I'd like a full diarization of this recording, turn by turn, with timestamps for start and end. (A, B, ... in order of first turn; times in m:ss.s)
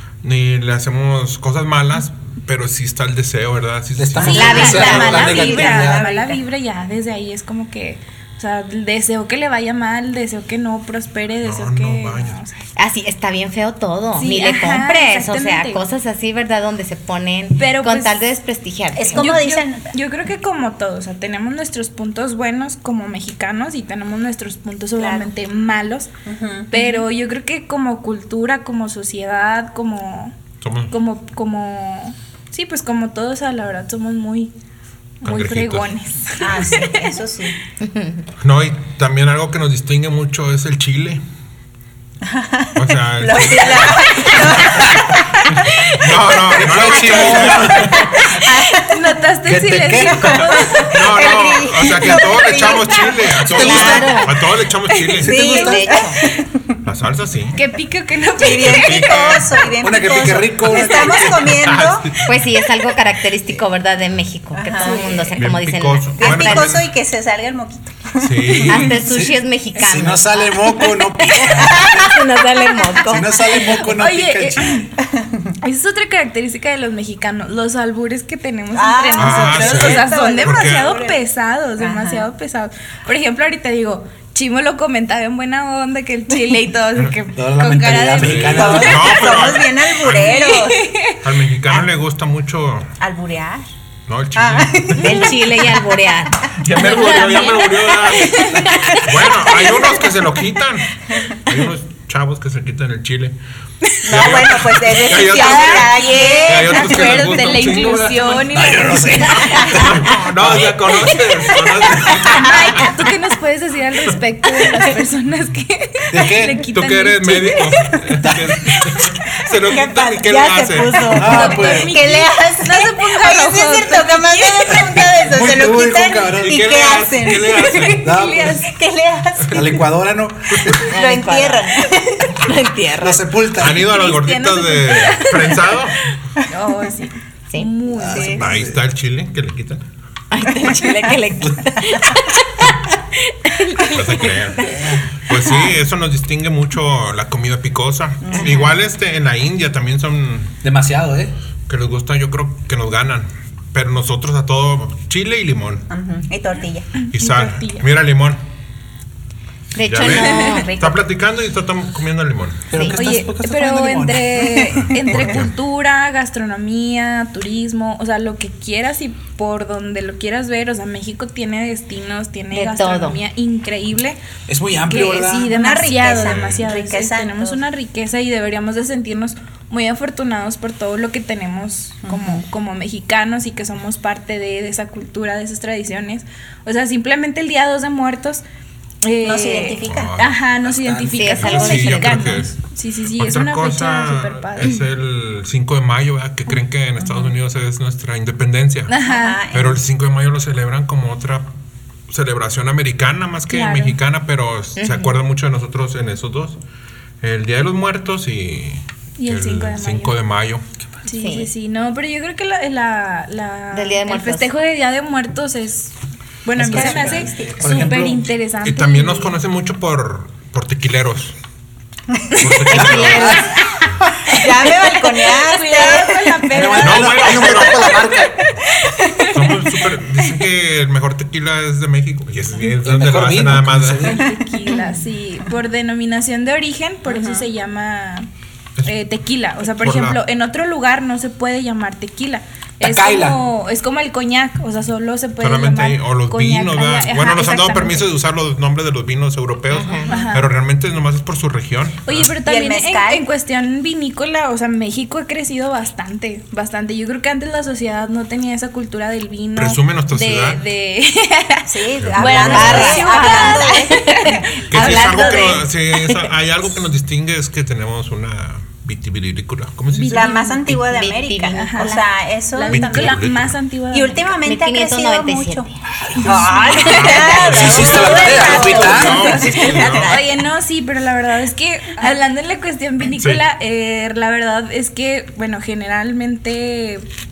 0:00.2-0:05.3 A
0:04.0-0:06.0 B
0:04.2-0:12.6 C
0:04.3-0:05.2 D
0:04.6-0:06.4 E
0:11.4-0:12.4 A
0:12.8-0:19.3 D
0:14.2-0:15.8 C
0:17.6-0:18.1 C
0:18.9-0:19.9 E
0:19.1-0:26.1 C
0:25.0-0:25.3 E
0:26.2-0:26.7 E
0:26.7-0:30.3 C
0:30.6-0:30.9 A
0:30.9-0:34.5 C
0:35.2-0:36.9 C
0:35.2-0:35.9 A
0:36.4-0:37.6 E
0:37.8-0:38.2 D
0:38.4-0:41.2 A
0:42.2-0:45.9 E
0:42.8-0:44.8 A
0:46.0-0:48.1 A
0:46.5-0:49.0 E
0:46.5-0:48.2 B
0:48.8-0:50.9 C
0:49.5-0:50.6 B
0:50.3-0:54.1 E
0:50.9-0:55.4 A
0:53.4-0:54.3 B
0:53.5-0:54.4 D
0:55.2-0:55.9 B
0:55.2-0:56.2 D
0:55.2-0:56.7 E
0:56.8-0:57.6 A
0:57.5-0:59.4 C
0:58.4-1:02.1 E
0:58.4-0:59.5 A
0:59.8-1:01.7 B
1:01.1-1:02.2 A
1:02.2-1:06.7 D
1:04.5-1:05.2 E
1:04.8-1:05.4 C
1:05.4-1:06.9 A
1:06.2-1:08.9 E
1:08.2-1:08.9 A
1:08.6-1:13.6 D
1:08.9-1:12.1 B
1:13.0-1:14.8 B
1:13.6-1:14.9 C
1:15.0-1:15.5 E
1:15.6-1:29.4 C
1:18.7-1:21.2 E
1:19.2-1:20.9 A
1:21.8-1:22.3 E
1:27.3-1:29.1 B
1:28.2-1:30.4 A
1:28.6-1:31.0 E
1:30.2-1:31.2 C
1:31.2-1:32.9 A
1:33.0-1:33.6 E
1:34.1-1:35.3 A
1:34.4-1:35.3 E
1:35.0-1:37.7 D
1:36.5-1:43.3 A
1:36.7-1:38.9 C
1:44.0-1:47.2 E
1:44.1-1:48.4 A
1:45.3-1:46.6 D
1:46.0-1:49.8 C
1:48.5-1:51.0 B
1:49.6-1:53.0 A
1:51.8-1:52.3 B
1:52.3-1:58.0 C
1:56.1-1:56.6 B
1:56.7-2:01.0 A
1:58.2-1:58.6 B
1:59.7-2:09.8 E
2:00.3-2:01.6 D
2:01.1-2:02.0 B
2:01.3-2:04.8 C
2:05.1-2:06.6 B
2:06.4-2:08.1 A
2:07.6-2:08.6 C
2:08.0-2:08.6 B
2:09.5-2:10.8 B
2:10.6-2:10.8 A
2:10.8-2:12.3 E
2:10.9-2:13.2 D
2:13.0-2:13.9 B
2:13.6-2:16.0 A
2:13.8-2:15.6 C
2:16.5-2:18.4 C
2:18.0-2:18.8 B
2:18.1-2:18.4 E
2:18.4-2:19.8 A
2:20.3-2:24.8 D
2:20.6-2:21.0 E
2:23.9-2:24.7 A
2:24.7-2:25.0 B
2:25.3-2:30.5 A
2:25.3-2:25.8 D
2:28.2-2:28.7 E
2:28.3-2:28.7 D
2:30.6-2:31.3 B
2:31.7-2:35.8 A
2:35.9-2:36.9 E
2:37.1-2:38.4 A
2:37.1-2:37.9 C
2:39.7-2:40.7 D
2:39.8-2:42.6 A
2:40.1-2:40.5 C
2:40.2-2:41.1 E
2:42.7-2:44.5 B
2:42.9-2:54.2 C
2:44.4-2:45.4 E
2:45.1-2:45.5 A
2:52.5-2:53.2 D
2:54.5-2:55.6 B
2:54.9-3:08.4 C
2:55.4-2:57.6 E
2:56.0-2:56.6 A
3:02.0-3:02.4 E
3:09.0-3:14.8 C
3:09.2-3:10.3 E
3:09.8-3:10.4 A
3:10.6-3:11.3 B
3:11.2-3:12.4 D
3:11.3-3:12.6 A
3:13.1-3:18.9 A
3:18.9-3:19.4 C
3:19.0-3:19.8 E
3:19.5-3:21.5 A
3:22.1-3:26.6 A
3:23.5-3:24.0 C
3:24.8-3:25.1 D
3:27.2-3:30.6 A
3:29.2-3:30.2 C
3:31.0-3:35.9 C
3:31.1-3:31.5 D
3:33.7-3:34.5 D
3:36.4-3:39.4 C
3:36.6-3:38.2 B
3:36.6-3:38.0 E
3:38.6-3:41.3 A
3:42.1-3:42.9 E
3:42.4-3:43.4 A
3:42.7-3:43.4 B
3:44.2-3:46.5 E
3:45.2-3:47.7 C
3:46.5-3:48.4 B
3:46.8-3:47.9 A
3:48.9-3:49.4 C
3:49.3-3:54.2 A
3:52.8-3:54.2 B
3:54.0-3:58.3 C
3:57.0-3:57.5 E
3:58.8-4:08.1 C
3:59.7-4:00.2 A
4:02.8-4:03.4 B
4:05.4-4:12.3 A
4:09.7-4:10.1 D
4:10.1-4:10.5 C
4:12.0-4:25.6 C
4:12.4-4:13.2 E
4:19.6-4:20.6 A
4:21.7-4:25.0 E
4:22.0-4:23.0 A
4:22.4-4:26.2 D
4:24.7-4:30.3 A
4:29.9-4:30.6 C
4:30.1-4:33.3 E
4:30.7-4:32.0 D
4:31.5-4:32.0 C
4:32.5-4:34.3 C
4:32.7-4:33.5 A
4:33.9-4:35.7 E
4:34.4-4:35.7 D
4:36.2-4:47.1 C
4:36.2-4:40.3 E
4:36.3-4:40.2 A
4:36.7-4:38.0 D
4:37.4-4:39.3 B
4:43.2-4:43.4 A